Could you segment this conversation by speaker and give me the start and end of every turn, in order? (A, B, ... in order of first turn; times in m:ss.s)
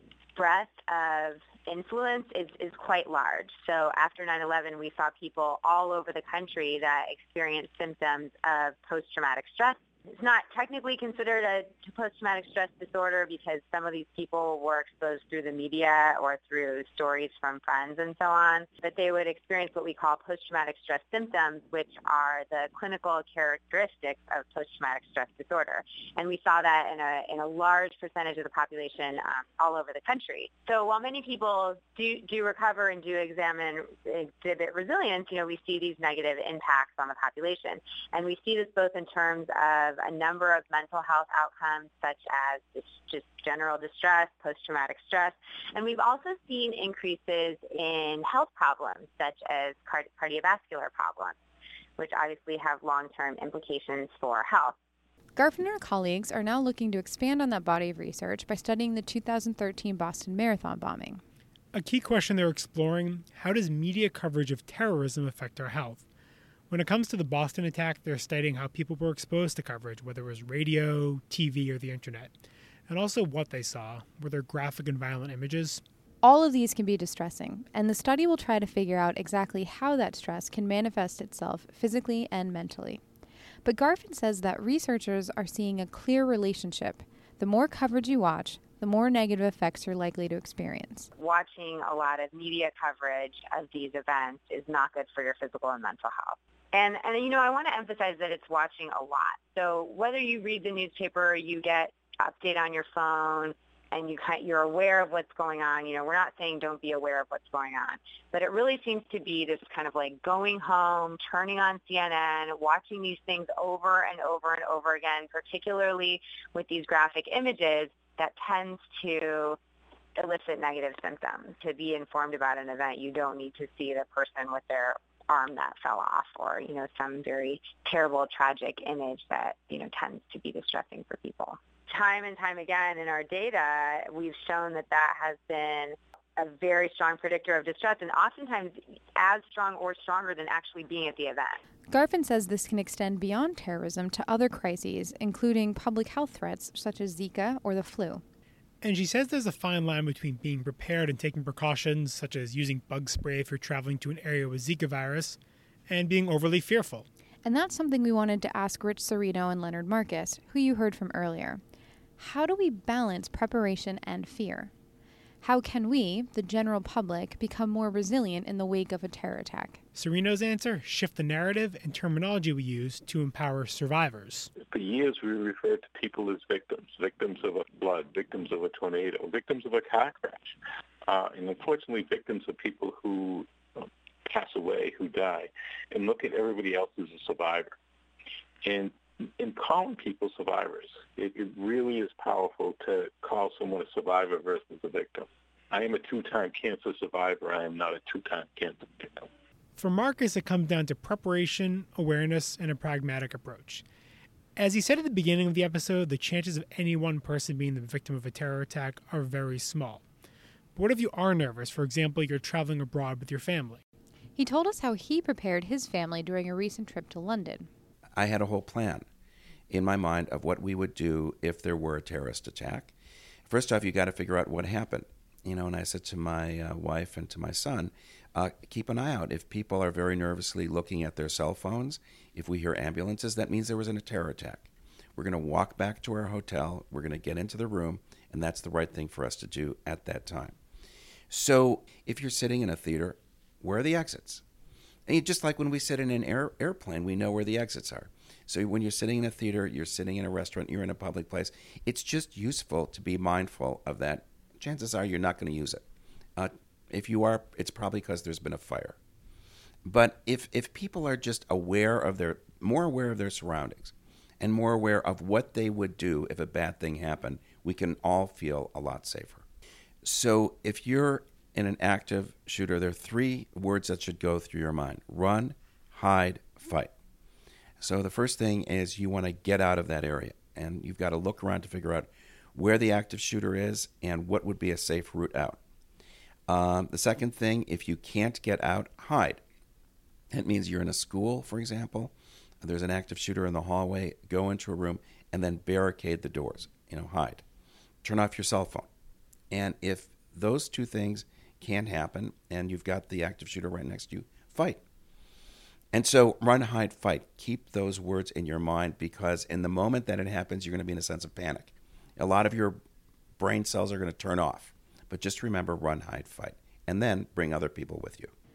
0:00.4-0:51.4 A
0:52.0-0:54.8 A
0:55.4-1:01.2 B
1:01.7-1:06.0 C
1:06.7-1:12.4 C
1:12.9-1:15.8 C
1:16.2-1:23.0 B
1:23.6-1:31.1 B
1:31.2-1:59.6 A
2:00.2-2:21.6 A
2:21.9-2:28.2 B
2:28.8-2:37.1 C
2:37.4-2:41.6 B
2:42.2-2:44.7 B
2:45.4-2:49.8 B
2:50.0-2:54.5 C
2:54.6-3:07.8 D
3:08.6-3:19.3 D
3:19.8-3:23.8 C
3:24.6-3:30.0 C
3:30.8-3:33.8 C
3:34.4-3:37.7 B
3:38.2-3:39.1 E
3:39.7-3:42.9 E
3:43.5-4:00.6 E
4:01.3-4:04.4 E
4:05.1-4:15.8 E
4:16.4-4:19.0 E
4:19.8-4:29.4 E
4:30.0-4:36.9 E
4:37.8-4:45.6 E
4:46.5-4:49.4 E
4:50.3-4:57.4 E
4:58.0-4:58.9 E
4:59.5-5:04.8 E
5:05.9-5:12.8 E
5:13.4-5:18.3 E